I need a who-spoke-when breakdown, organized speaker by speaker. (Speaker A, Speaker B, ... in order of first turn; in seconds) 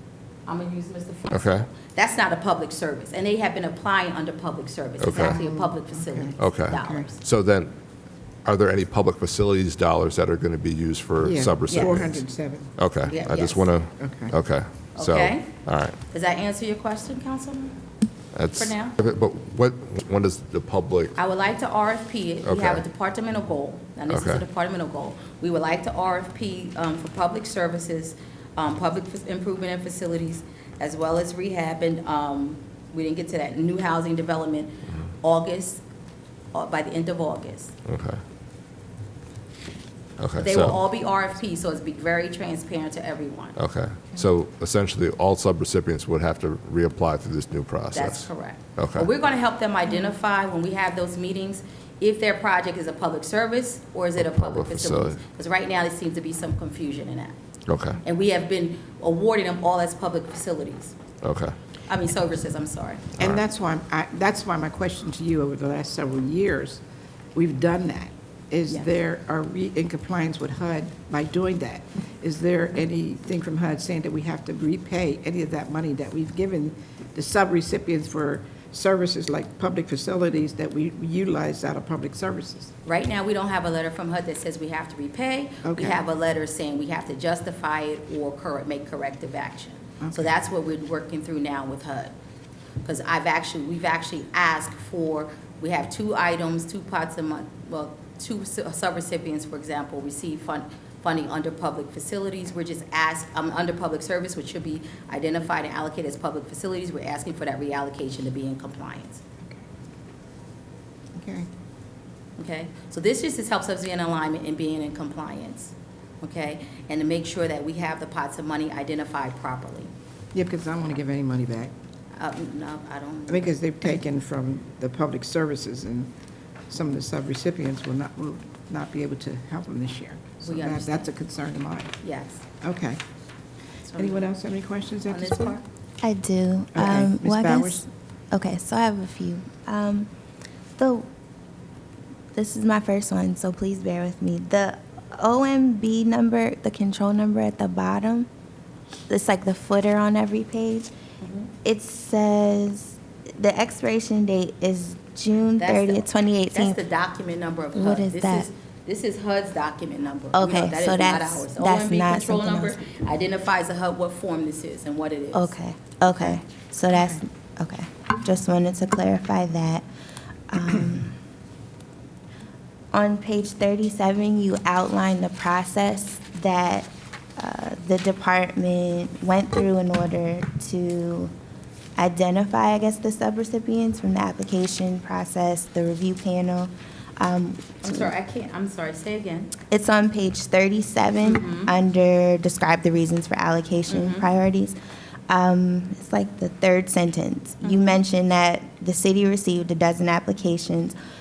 Speaker A: 0.5-7.2, 11.7-12.0, 13.1-13.7, 14.9-15.5, 16.1-17.8, 18.5-19.0, 21.1-35.8, 36.5-37.8, 40.4-43.6, 47.9-57.3, 58.0-60.9, 61.9-63.0, 82.8-92.1, 92.8-109.2, 112.4-119.9, 122.1-123.5, 130.4-131.1, 132.0-132.4, 133.8-134.3, 135.1-135.6, 151.2-151.5, 155.6-165.5, 187.8-189.5, 191.2-191.7, 193.9-194.3, 197.6-198.0
Speaker B: 1.3-1.7, 5.0-5.4, 6.4-7.7, 8.4-12.2, 12.8-15.9, 18.3-21.1, 22.4-22.8, 24.1-24.4, 37.9-38.2, 40.2-40.8, 43.6-49.1, 54.2-55.2, 57.7-58.0, 61.2-61.5
Speaker C: 5.2-7.0, 11.2-12.7, 14.0-14.3, 63.2-66.8, 67.3-82.7, 85.6-86.0, 90.0-90.3, 111.2-111.5, 120.3-121.7, 123.3-126.1, 126.7-131.9, 132.6-133.0, 134.0-135.6, 136.7-137.8
Speaker D: 136.0-140.1, 140.8-141.1, 142.3-148.3, 149.1-150.9, 151.6-156.8, 157.7-158.5, 160.3-162.8, 165.3-169.8, 170.5-171.2, 172.9-181.3, 182.0-188.1, 189.7-194.8, 195.3-201.0